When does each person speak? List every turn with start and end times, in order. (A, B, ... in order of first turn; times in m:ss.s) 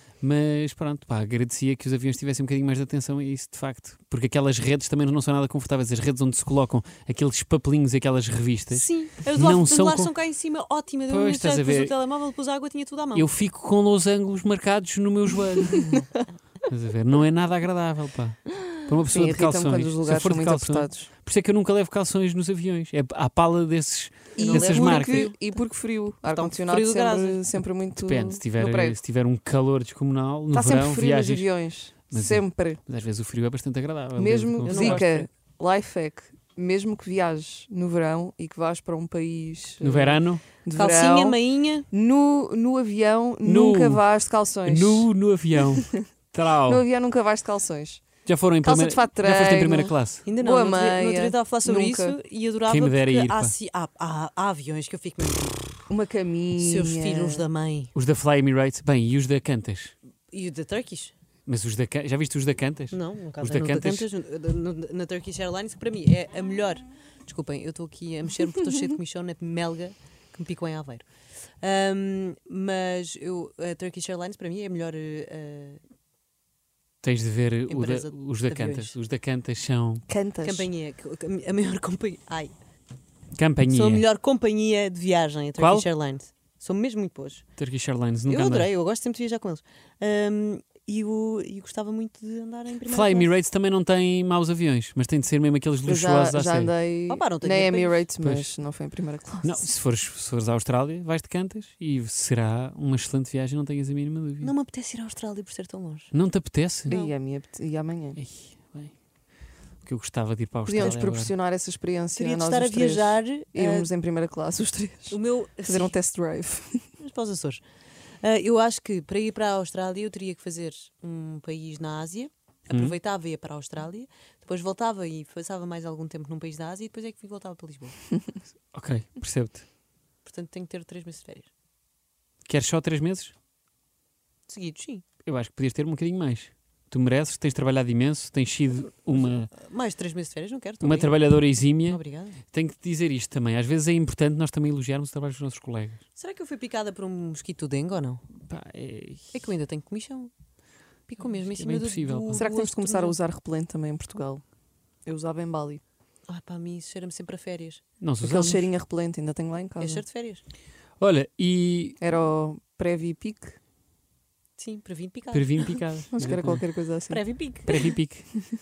0:00.2-0:10.1 A
0:08.7-0:13.3 B
0:11.1-0:11.9 A
0:13.1-0:15.9 A
0:16.6-0:25.3 A
0:19.0-0:21.1 C
0:24.3-0:25.5 B
0:24.4-0:29.0 C
0:26.3-0:27.4 B
0:28.0-0:31.5 A
0:30.5-0:32.8 C
0:32.1-0:35.3 A
0:34.2-0:41.4 C
0:34.6-0:35.0 B
0:39.8-0:40.4 A
0:40.7-0:41.9 B
0:41.9-0:45.1 C
0:43.4-0:44.0 A
0:44.6-0:46.8 A
0:45.8-0:46.0 C
0:46.6-0:48.1 C
0:48.2-0:50.3 A
0:48.6-0:52.2 C
0:50.2-0:55.9 B
0:52.6-0:53.5 A
0:55.9-0:57.5 C
0:56.6-0:57.9 B
0:57.9-0:59.9 A
1:00.3-1:01.1 B
1:01.4-1:04.1 A
1:02.9-1:11.1 B
1:11.6-1:15.8 B
1:17.0-1:20.0 A
1:17.7-1:19.0 B
1:20.1-1:20.7 C
1:20.4-1:22.5 B
1:23.3-1:24.0 A
1:23.7-1:27.4 B
1:25.6-1:25.9 A
1:27.6-1:28.7 A
1:28.3-1:33.3 B
1:32.8-1:36.7 A
1:35.8-1:39.6 C
1:37.1-1:38.0 B
1:38.2-1:38.5 A
1:39.4-1:44.5 A
1:44.4-1:46.1 B
1:46.1-1:46.9 A
1:46.8-1:47.1 B
1:46.9-1:48.2 C
1:48.2-1:48.9 A
1:49.8-1:51.3 A
1:50.6-1:56.9 C
1:52.2-1:53.9 B
1:55.1-1:56.0 B
1:57.0-1:57.6 B
1:58.2-2:08.0 B
2:02.7-2:03.0 A
2:08.7-2:09.6 A
2:10.2-2:11.5 B
2:12.4-2:13.3 A
2:14.5-2:15.0 B
2:15.2-2:19.5 A
2:19.5-2:22.4 B
2:20.8-2:22.0 A
2:22.5-2:26.0 A
2:26.2-2:28.2 B
2:28.4-2:29.4 A
2:29.3-2:30.3 B
2:31.1-2:33.2 B
2:31.5-2:32.4 A
2:32.4-2:34.4 C
2:35.0-2:35.8 C
2:36.3-2:37.8 B
2:38.0-2:38.7 A
2:38.2-2:40.0 C
2:39.8-2:40.4 B
2:41.0-2:42.0 A
2:42.0-2:43.6 C
2:44.6-2:45.8 B
2:45.3-2:46.6 A
2:46.1-2:47.2 C
2:47.1-2:47.9 B
2:47.6-2:48.3 A